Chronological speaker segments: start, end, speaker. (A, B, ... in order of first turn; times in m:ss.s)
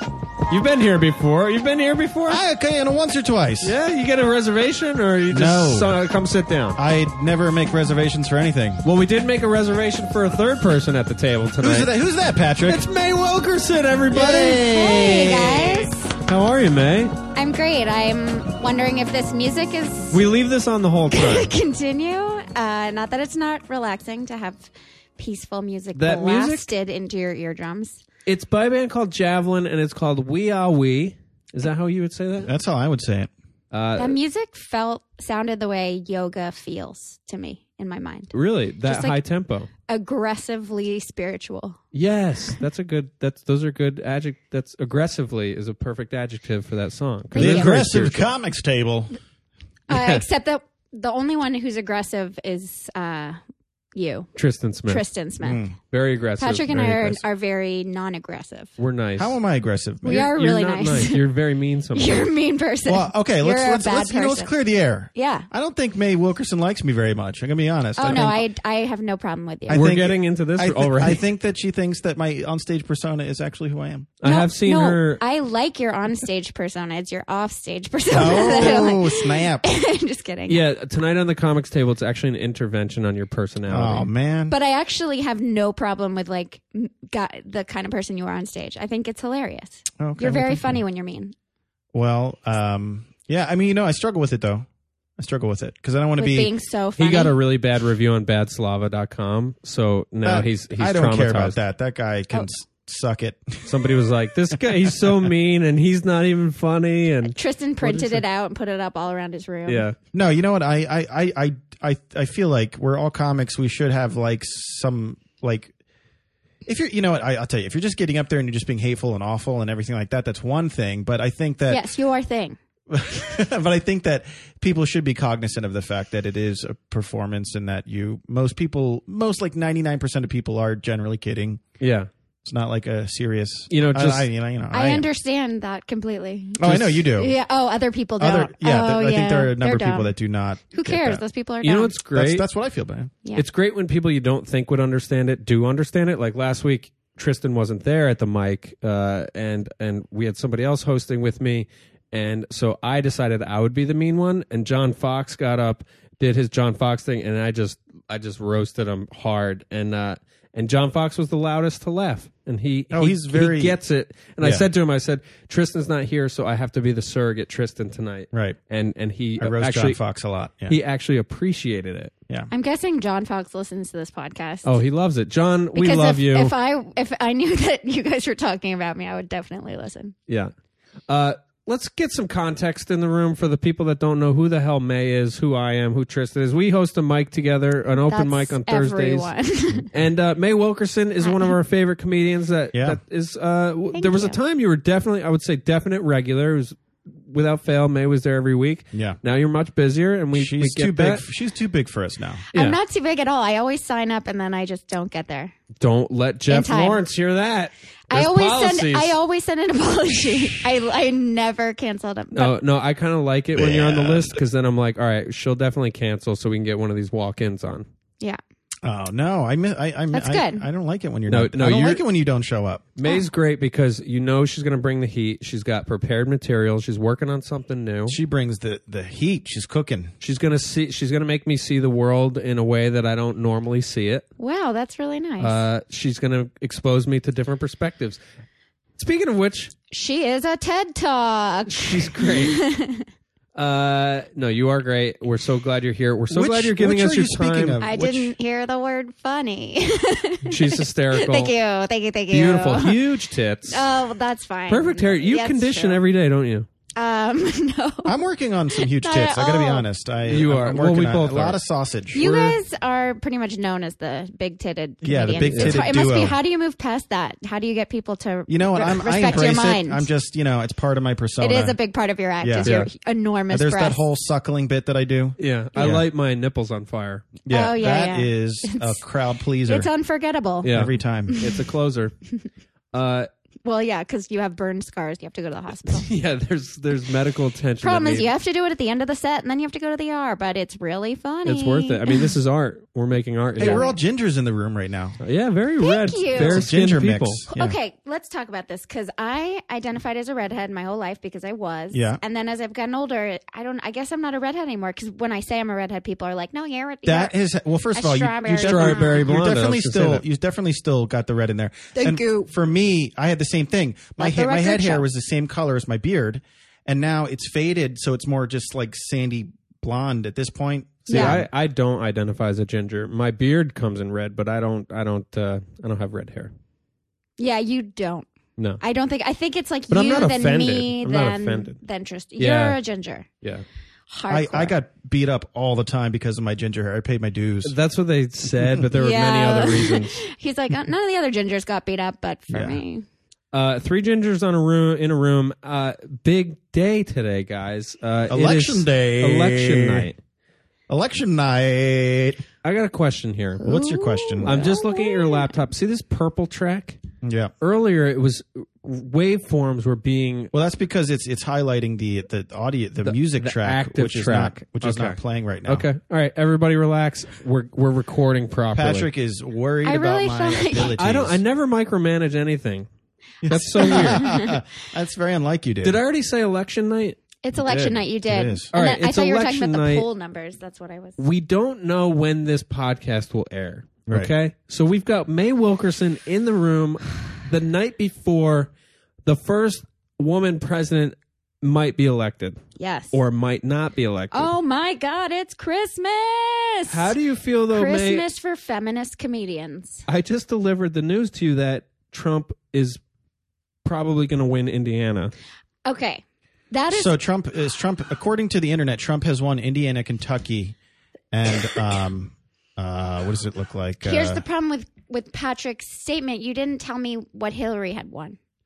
0:00.5-0:02.4 A
0:02.3-0:03.8 B
0:03.6-0:06.8 A
0:05.3-0:06.0 B
0:06.8-0:08.8 B
0:08.8-0:11.9 A
0:11.6-0:12.8 B
0:12.6-0:17.1 A
0:14.1-0:16.2 C
0:17.3-0:20.2 C
0:20.1-0:21.5 A
0:21.1-0:28.0 C
0:25.9-0:26.7 A
0:28.2-0:32.5 A
0:32.4-0:33.3 B
0:33.7-0:34.2 A
0:34.0-0:38.3 C
0:38.3-0:39.7 A
0:38.8-0:39.2 C
0:39.9-0:41.8 C
0:41.9-0:48.3 A
0:47.3-0:47.8 C
0:47.3-0:49.2 B
0:49.9-0:53.4 C
0:49.9-0:50.2 A
0:53.9-0:54.3 C
0:54.4-0:55.0 A
0:54.9-0:55.6 C
0:55.4-0:55.7 B
0:55.9-0:57.2 A
0:56.4-0:58.7 C
0:58.8-0:59.4 A
0:59.2-1:00.3 B
1:00.0-1:01.2 C
1:00.0-1:02.3 A
1:01.9-1:04.5 C
1:02.8-1:08.4 B
1:05.1-1:05.5 C
1:08.0-1:09.9 C
1:09.7-1:14.1 B
1:09.7-1:11.2 A
1:14.2-1:15.2 A
1:14.2-1:20.6 C
1:18.1-1:19.6 B
1:20.5-1:24.1 A
1:23.7-1:24.5 B
1:24.5-1:31.3 C
1:30.0-1:30.8 B
1:31.9-1:34.7 B
1:35.2-1:36.5 B
1:36.2-1:37.4 C
1:37.0-1:41.6 A
1:40.2-1:45.3 B
1:43.6-1:48.2 A
1:47.2-1:49.9 C
1:49.6-1:50.0 A
1:50.1-1:55.7 B
1:56.6-2:01.9 B
2:01.7-2:02.6 C
2:02.9-2:11.6 B
2:11.8-2:12.1 A
2:12.4-2:15.0 B
2:13.7-2:14.3 A
2:14.7-2:20.1 C
2:16.6-2:17.3 B
2:18.2-2:21.2 B
2:20.7-2:21.9 C
2:21.6-2:22.4 A
2:22.1-2:23.1 B
2:23.3-2:50.0 A
2:42.9-2:43.8 B
2:44.4-2:44.6 B
2:48.3-2:48.6 B
2:49.4-2:50.8 B
2:50.7-2:52.1 A
2:52.5-2:54.7 C
2:54.6-2:56.5 A
2:55.7-3:00.1 C
3:01.1-3:09.3 A
3:08.1-3:09.9 C
3:09.9-3:21.2 A
3:11.2-3:11.5 C
3:12.7-3:13.0 B
3:13.9-3:14.4 C
3:18.9-3:19.2 B
3:20.3-3:22.4 B
3:22.5-3:22.8 A
3:22.5-3:25.5 C
3:25.8-3:29.2 A
3:26.5-3:27.0 C
3:28.1-3:32.6 C
3:32.3-3:37.9 A
3:33.6-3:34.4 B
3:38.8-3:42.9 B
3:40.1-3:40.6 C
3:41.3-3:42.0 A
3:43.0-3:48.2 A
3:48.1-3:50.1 B
3:50.2-3:54.2 A
3:54.4-3:55.6 C
3:55.4-3:58.2 A
3:59.0-3:59.7 A
3:59.9-4:03.1 C
4:01.7-4:02.6 A
4:03.5-4:07.8 A
4:06.3-4:08.3 B
4:07.8-4:13.0 C
4:10.4-4:11.5 A
4:12.3-4:13.9 A
4:13.6-4:16.0 C
4:14.7-4:16.7 A
4:17.0-4:18.2 C
4:18.0-4:22.2 B
4:18.7-4:19.8 C
4:20.3-4:21.6 A
4:22.1-4:30.1 C
4:22.1-4:22.6 A
4:25.0-4:26.4 B
4:25.5-4:25.8 A
4:28.5-4:31.8 B
4:31.4-4:34.0 C
4:32.4-4:32.7 B
4:32.6-4:32.9 A
4:33.5-4:36.0 B
4:35.4-4:37.3 A
4:37.4-4:39.9 B
4:37.5-4:39.0 C
4:39.6-4:40.7 C
4:40.6-4:42.1 A
4:40.7-4:41.4 B
4:41.3-4:41.6 C
4:42.9-4:43.3 A
4:43.6-4:46.1 C
4:45.9-4:48.3 A
4:47.8-4:52.3 C
4:51.4-4:53.8 A
4:53.6-4:55.2 B
4:53.6-4:53.9 C
4:55.2-4:57.4 A
4:55.8-4:56.6 C
4:56.3-4:57.8 B
4:57.5-5:07.3 C
5:01.9-5:02.2 B
5:07.0-5:21.5 B
5:07.9-5:09.2 C
5:08.6-5:10.2 A
5:11.9-5:12.5 C
5:14.2-5:15.0 C
5:21.1-5:21.4 C
5:21.1-5:26.5 A
5:27.4-5:28.3 C
5:28.8-5:33.3 C
5:29.9-5:31.8 A
5:32.4-5:32.8 A
5:34.1-5:34.7 C
5:34.3-5:37.7 B
5:37.6-5:40.2 A
5:38.9-5:43.0 C
5:42.5-5:42.8 B
5:43.5-5:50.2 A
5:48.3-5:50.1 B
5:50.9-5:52.4 B
5:52.6-5:53.6 A
5:53.6-5:55.5 C
5:53.6-5:54.6 B
5:54.4-5:57.0 A
5:57.2-5:57.5 B
5:57.6-6:00.5 A
6:00.5-6:05.9 B
6:03.0-6:09.1 A
6:08.7-6:11.4 B
6:09.8-6:11.0 C
6:10.8-6:12.9 A
6:13.4-6:16.0 B
6:13.4-6:14.3 A
6:13.8-6:14.5 C
6:15.8-6:18.0 A
6:17.4-6:21.2 C
6:18.2-6:18.7 B
6:18.7-6:20.0 A
6:21.2-6:28.7 A
6:24.1-6:24.3 B
6:29.2-6:32.6 A
6:32.8-6:33.2 C
6:33.1-6:34.5 A
6:34.3-6:37.1 C
6:36.9-6:38.2 A
6:37.7-6:40.0 C
6:40.1-6:43.0 A
6:43.8-6:45.3 A
6:45.8-6:47.1 C
6:46.9-6:50.7 B
6:51.3-6:54.4 B
6:54.0-6:58.4 C